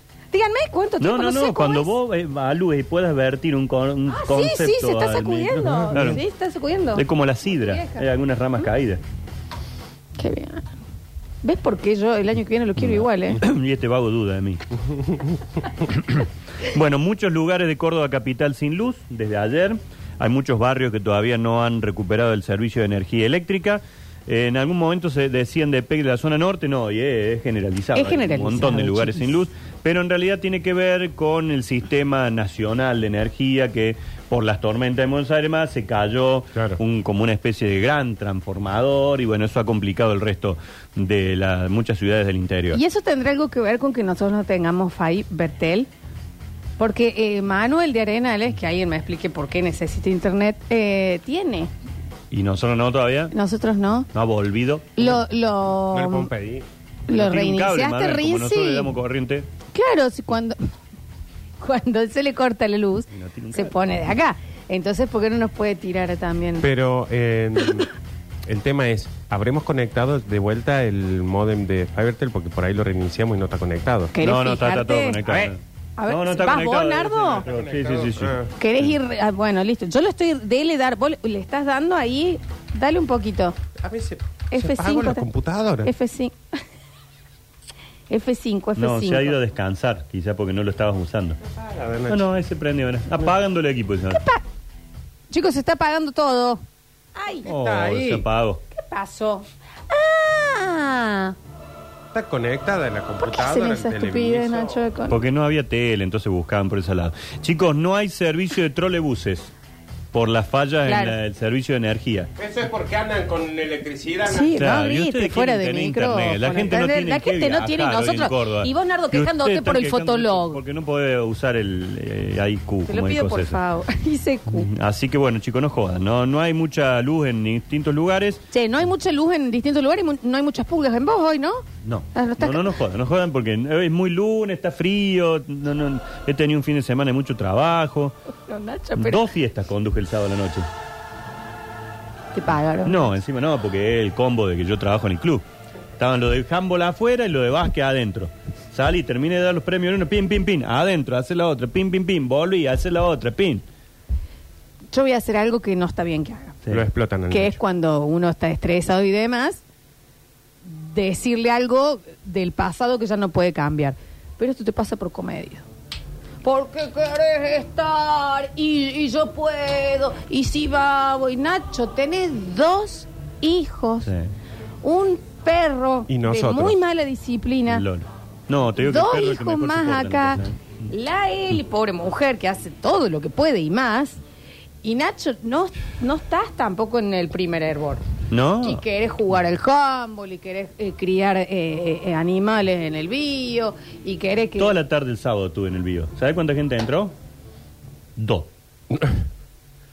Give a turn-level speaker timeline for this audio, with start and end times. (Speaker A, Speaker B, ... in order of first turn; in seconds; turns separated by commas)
Speaker A: 0.3-1.9, Speaker B: 1.0-6.2, Speaker A: 4.1-8.0, Speaker C: 5.6-6.2, Speaker B: 6.9-9.0, Speaker A: 10.2-10.7, Speaker A: 11.4-13.4, Speaker B: 12.8-14.7, Speaker C: 14.8-15.4, Speaker B: 15.8-42.8, Speaker A: 27.9-29.4, Speaker C: 36.5-36.8, Speaker A: 42.7-45.9, Speaker A: 46.8-51.7, Speaker B: 52.3-53.3, Speaker A: 53.3-54.1, Speaker B: 54.1-55.1, Speaker A: 55.0-56.3, Speaker C: 55.9-56.6, Speaker A: 57.1-58.9, Speaker B: 57.1-59.5, Speaker A: 59.7-60.6, Speaker A: 61.6-66.7, Speaker B: 63.1-63.7, Speaker C: 66.6-67.9, Speaker C: 68.5-74.1, Speaker A: 74.1-77.4, Speaker B: 74.2-79.0, Speaker C: 77.4-78.5, Speaker A: 78.6-83.5, Speaker C: 83.8-85.9, Speaker A: 84.5-85.3, Speaker A: 85.8-86.3, Speaker A: 88.1-89.4, Speaker B: 88.8-91.4, Speaker C: 91.4-92.3, Speaker B: 92.1-94.2, Speaker A: 94.1-94.4, Speaker A: 95.3-96.6, Speaker A: 97.1-97.5, Speaker C: 97.4-98.2, Speaker B: 97.4-98.6, Speaker A: 98.7-101.3, Speaker C: 102.1-104.8, Speaker A: 103.2-105.2, Speaker B: 105.1-109.5, Speaker B: 110.1-112.3, Speaker A: 110.8-111.2, Speaker C: 112.4-114.6, Speaker A: 114.2-120.6, Speaker B: 114.5-123.6, Speaker A: 122.8-124.7, Speaker B: 124.5-128.4, Speaker A: 128.5-132.7, Speaker B: 131.8-138.2, Speaker A: 138.5-139.2, Speaker B: 138.9-140.7, Speaker A: 142.3-143.1, Speaker B: 142.8-145.4, Speaker B: 146.0-153.6, Speaker A: 154.9-156.6, Speaker C: 156.7-157.6, Speaker A: 157.3-159.6, Speaker A: 160.6-165.7, Speaker A: 166.4-174.1, Speaker B: 174.0-174.3, Speaker A: 174.8-177.8, Speaker C: 176.1-176.8, Speaker B: 177.7-180.6, Speaker A: 178.8-184.2, Speaker A: 184.8-188.0, Speaker B: 188.3-188.8, Speaker A: 188.6-194.8, Speaker B: 194.6-197.1, Speaker B: 198.2-198.5, Speaker C: 198.9-199.2